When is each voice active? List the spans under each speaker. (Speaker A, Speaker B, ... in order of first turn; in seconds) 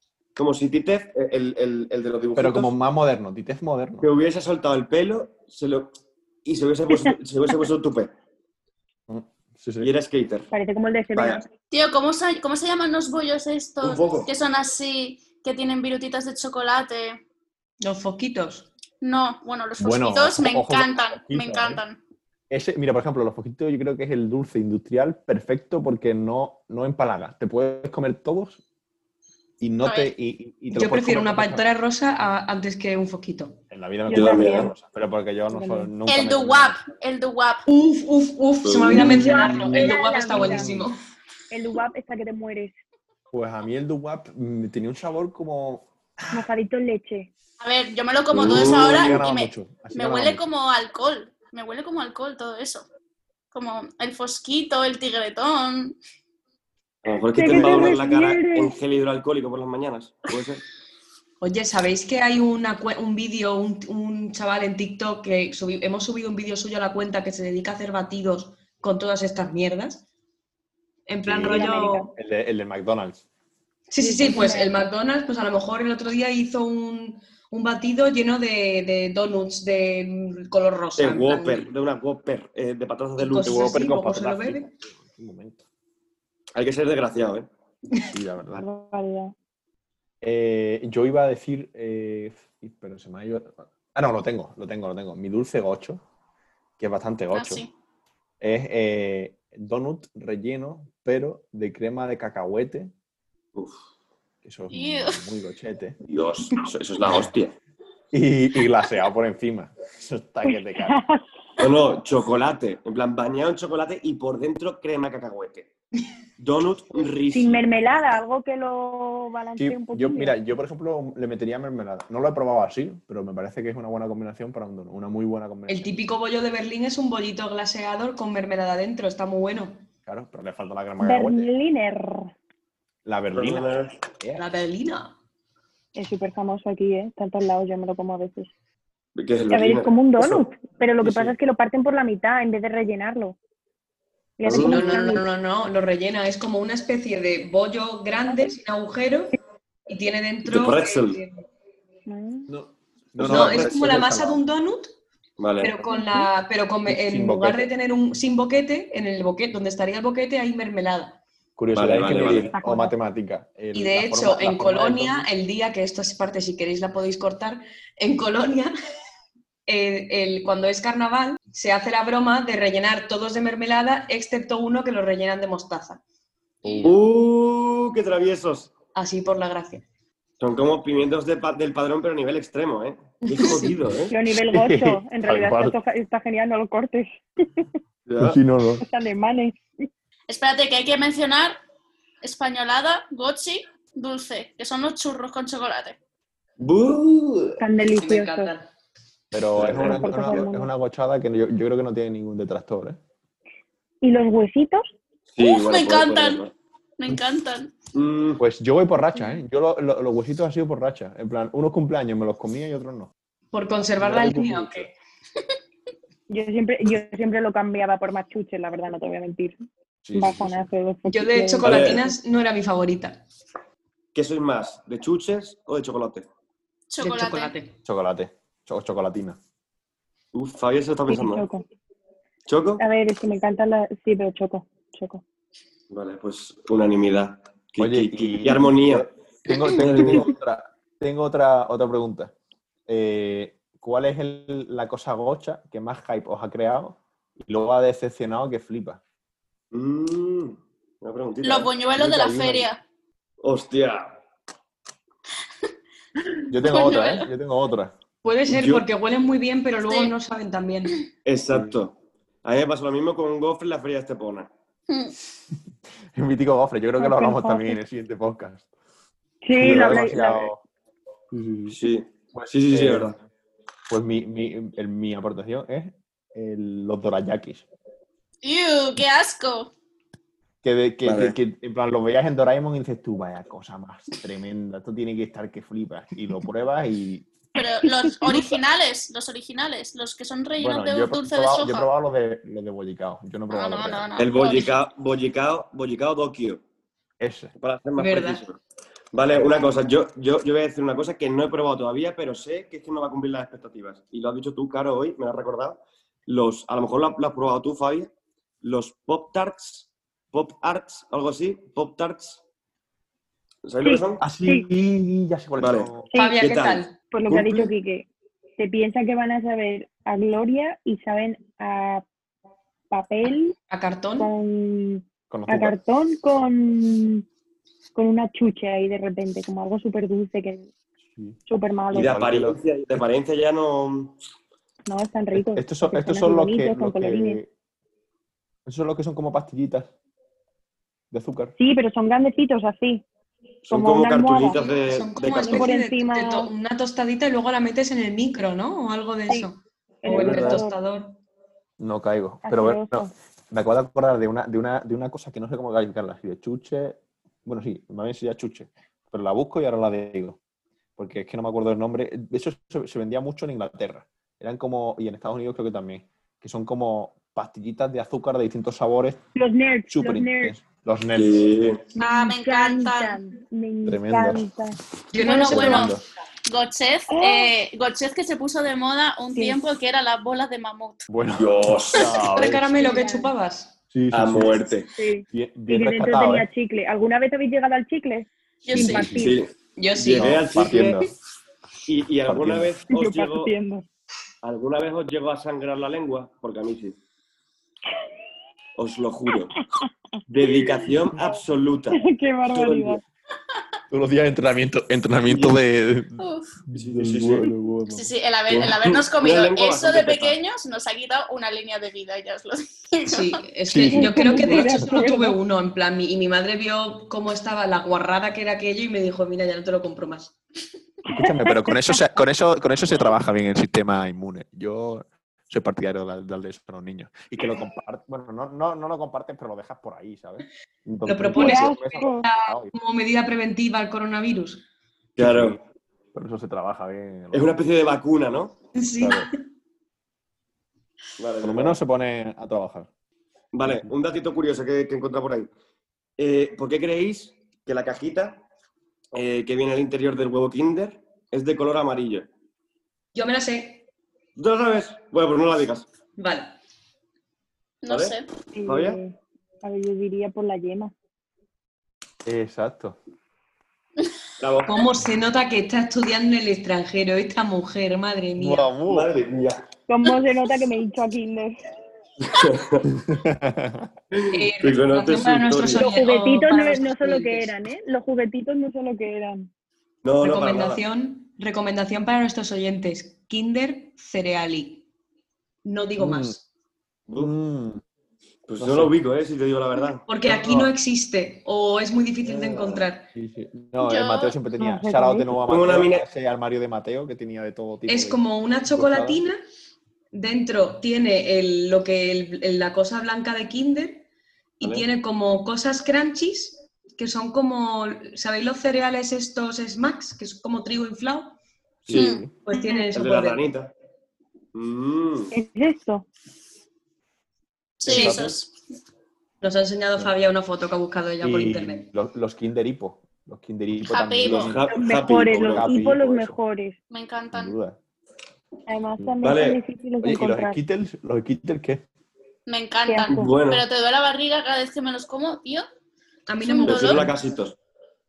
Speaker A: 0.3-2.7, 4.0-8.1, 9.8-10.5, 11.1-11.4, 13.8-14.3, 34.1-34.7, 38.6-39.9, 48.3-49.2, 57.0-60.6, 81.0-83.7, 86.5-87.5, 106.0-107.5, 111.6-115.7, 116.4-117.6, 133.3-134.0, 139.1-140.5, 141.0-141.3, 144.4-144.9, 150.4-151.2, 153.2-153.8, 155.4-155.7, 161.7-162.5, 176.8-178.7, 180.4-184.1, 188.1-188.4, 196.6-197.6, 199.5-200.5, 205.3-206.5, 207.9-208.4, 221.6-222.0, 224.1-226.3, 230.3-231.4, 232.5-232.8, 235.9-240.3, 249.7-251.7, 253.4-254.2, 258.5-258.9, 261.2-264.5, 271.7-273.2, 281.0-281.4, 294.2-296.6, 297.6-298.6, 299.1-308.1, 308.6-312.4, 313.6-314.2, 315.6-317.7, 331.9-334.2, 343.7-345.7, 350.2-350.5, 371.1-371.8, 381.4-382.3, 384.1-384.9, 389.1-391.0, 391.9-393.5, 394.4-397.0, 398.8-399.6, 400.3-403.0, 405.2-405.6, 406.7-407.5, 408.5-410.4, 435.2-435.6, 437.3-438.6, 441.2-441.8, 443.5-445.5, 446.2-448.4, 449.1-452.3, 454.4-455.9, 457.9-459.0, 464.4-464.9, 468.9-469.6, 472.2-472.9, 474.1-475.9, 480.0-480.8, 487.1-487.3, 488.5-490.1, 492.2-492.8, 495.3-496.1, 512.9-513.7, 514.5-515.3, 524.2-526.0, 529.2-529.6, 533.1-533.6, 536.6-537.6
Speaker B: 2.4-4.1, 9.1-9.9, 19.8-21.8, 22.5-28.6, 29.6-31.7, 33.7-36.8, 40.3-40.9, 43.3-46.5, 48.3-50.4, 71.2-73.2, 83.4-85.6, 88.1-88.7, 90.2-96.0, 96.8-97.6, 98.4-102.9, 104.4-106.0, 108.1-111.0, 119.6-126.0, 130.1-131.5, 133.0-134.4, 152.5-154.4, 156.9-157.7, 161.6-165.2, 184.5-185.8, 188.2-188.8, 199.3-203.0, 208.4-213.1, 214.0-214.9, 220.0-220.7, 227.8-229.4, 237.8-242.3, 242.9-249.0, 251.9-252.7, 256.5-257.9, 266.1-268.7, 269.6-270.6, 271.3-271.8, 272.4-273.2, 273.9-277.7, 280.6-287.3, 290.6-294.1, 297.2-297.5, 314.2-316.1, 325.3-325.8, 331.9-332.6, 335.3-337.5, 338.6-339.9, 341.1-341.5, 350.2-350.6, 351.8-360.4, 361.0-369.2, 369.9-371.5, 373.8-374.4, 375.5-376.0, 381.1-382.7, 383.9-384.6, 385.3-386.5, 388.7-389.4, 390.1-391.1, 392.2-392.7, 403.9-408.1, 413.7-414.9, 421.1-432.7, 435.2-435.6, 436.1-437.6, 439.0-439.3, 441.4-442.9, 443.6-443.9, 462.2-463.0, 468.4-469.1, 472.9-473.9, 486.0-486.4, 487.1-487.8, 488.6-488.9, 490.2-490.7, 493.1-499.2, 511.8-512.3, 517.9-518.3, 521.2-526.4, 527.3-527.8, 530.0-531.9
Speaker C: 10.5-11.4, 34.1-34.7, 35.5-35.9, 38.9-40.7, 41.5-42.7, 46.3-47.3, 57.3-58.7, 71.5-72.1, 74.0-74.9, 88.5-89.3, 110.5-111.2, 117.3-120.3, 131.0-132.3, 135.9-138.5, 139.5-143.3, 144.4-145.2, 152.1-152.5, 155.9-156.3, 162.4-162.9, 184.1-187.7, 188.8-189.6, 197.6-198.5, 199.7-200.7, 204.0-204.9, 216.3-219.6, 220.1-222.1, 231.1-231.6, 232.8-235.2, 267.0-267.8, 269.4-270.5, 313.8-314.6, 317.1-318.1, 318.6-322.0, 322.9-323.6, 324.2-327.2, 327.9-330.7, 331.4-332.1, 334.9-337.4, 341.6-343.0, 343.7-344.6, 345.3-346.5, 350.0-350.7, 352.4-353.1, 369.3-370.5, 372.0-374.8, 377.1-377.5, 379.3-379.6, 382.7-383.3, 384.9-389.4, 392.9-393.9, 401.9-403.0, 413.9-415.4, 421.1-421.7, 431.4-432.2, 458.5-460.9, 469.9-471.6, 475.7-479.5, 494.5-495.3, 512.5-512.8, 515.3-516.0, 524.7-526.8, 528.7-530.6, 532.9-533.3
Speaker D: 11.7-17.2, 19.0-22.0, 29.8-30.1, 36.1-37.6, 47.6-52.9, 53.5-56.0, 97.3-97.7, 104.7-105.2, 190.3-191.6, 192.2-195.9, 205.4-206.4, 207.0-207.7, 226.9-227.5, 251.4-252.8, 256.6-257.3, 259.9-260.1, 264.9-265.1, 278.4-279.7, 287.6-291.9, 293.5-294.8, 372.0-373.2, 375.2-381.1, 388.6-389.2, 406.2-406.6, 407.9-413.4, 457.8-458.3, 493.8-494.4, 511.9-512.3, 517.8-518.5, 523.9-524.6, 526.9-527.6, 532.5-535.6, 536.4-537.1
Speaker E: 17.8-18.7, 30.7-33.6, 37.7-41.0, 61.4-70.0, 71.1-72.1, 73.9-81.7, 83.2-84.7, 125.7-129.8, 134.3-135.1, 144.5-149.3, 149.9-151.4, 153.2-154.9, 155.6-161.2, 163.7-168.7, 169.7-176.0, 178.9-179.8, 183.3-183.7, 197.9-198.7, 213.5-214.9, 221.1-223.2, 227.0-227.7, 258.2-260.9, 298.0-298.4, 316.1-316.9, 323.7-324.3, 344.5-351.2, 375.1-375.9, 382.2-383.7, 389.8-390.9, 413.1-420.3, 431.0-434.6, 438.7-439.2, 453.1-453.8, 456.2-456.6, 464.7-468.7, 474.3-477.5, 480.2-484.8, 485.6-486.4, 490.1-493.1, 497.9-499.4, 500.1-504.0, 504.6-511.4, 512.4-513.4, 517.9-518.3, 519.4-521.9, 536.3-537.1